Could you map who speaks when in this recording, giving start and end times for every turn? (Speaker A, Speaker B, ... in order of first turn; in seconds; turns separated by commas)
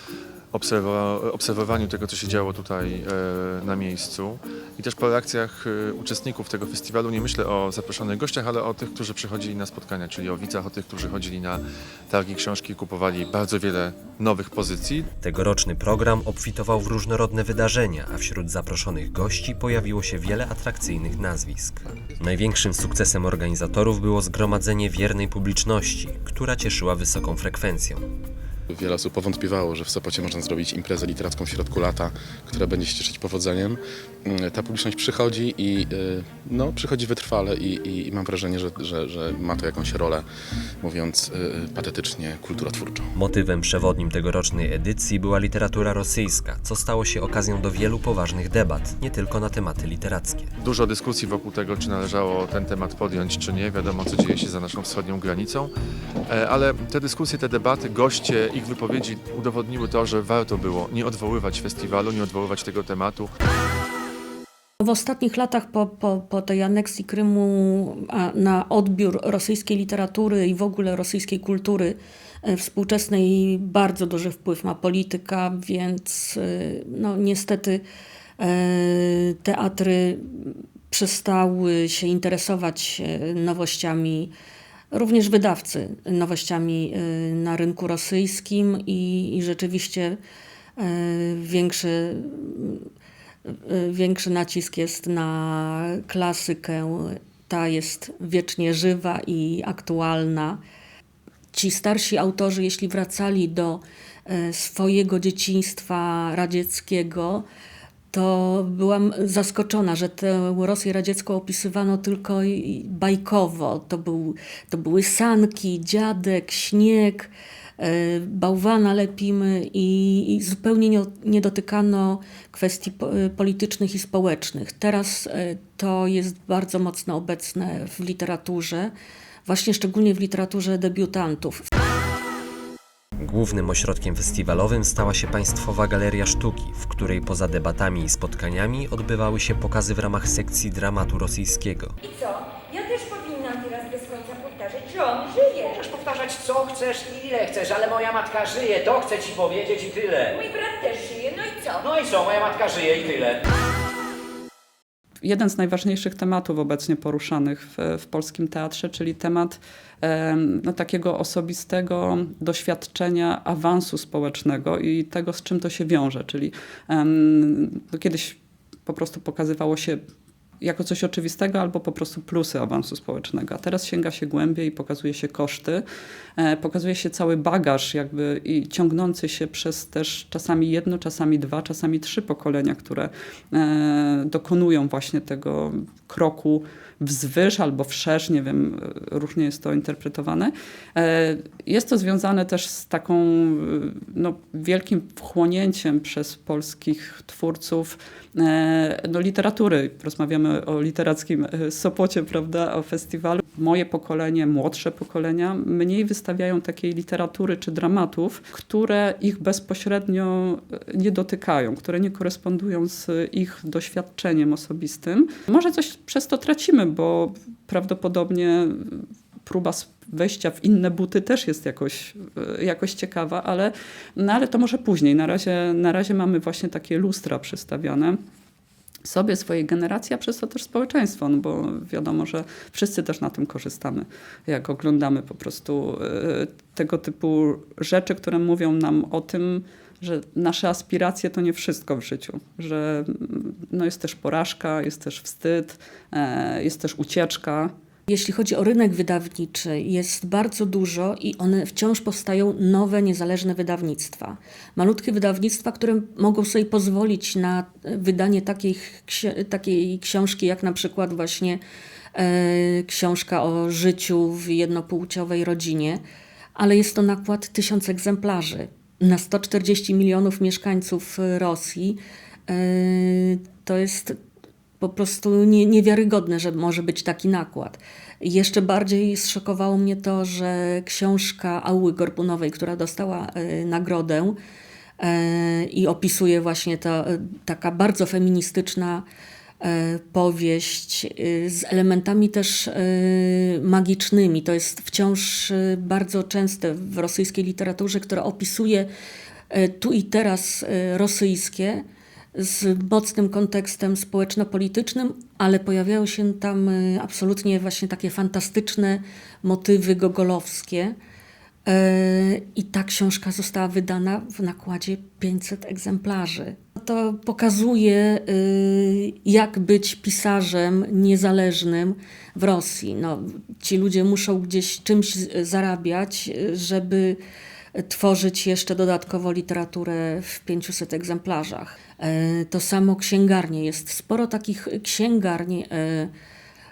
Speaker A: 0.5-15.1, Speaker B: 15.2-28.0, Speaker C: 28.7-40.2, Speaker C: 40.8-43.1, Speaker B: 43.1-50.5, Speaker A: 50.6-55.7, Speaker A: 56.3-63.3, Speaker D: 64.8-77.8, Speaker D: 78.4-84.3, Speaker D: 84.9-90.2, Speaker D: 90.8-92.8, Speaker D: 93.4-100.6, Speaker D: 101.5-107.4, Speaker D: 108.1-128.9, Speaker D: 129.4-131.6, Speaker B: 133.2-141.9, Speaker E: 142.0-145.8, Speaker F: 145.8-149.9, Speaker E: 150.3-151.8, Speaker F: 151.9-153.2, Speaker G: 155.2-170.0, Speaker G: 170.6-175.8, Speaker G: 176.4-228.2, Speaker G: 229.0-247.7, Speaker D: 248.1-261.6, Speaker D: 262.1-266.0, Speaker D: 266.6-274.2, Speaker D: 274.8-284.4, Speaker D: 285.0-289.1, Speaker D: 289.6-298.9, Speaker D: 299.5-301.8, Speaker D: 302.3-310.9, Speaker D: 311.6-327.2, Speaker D: 327.7-336.1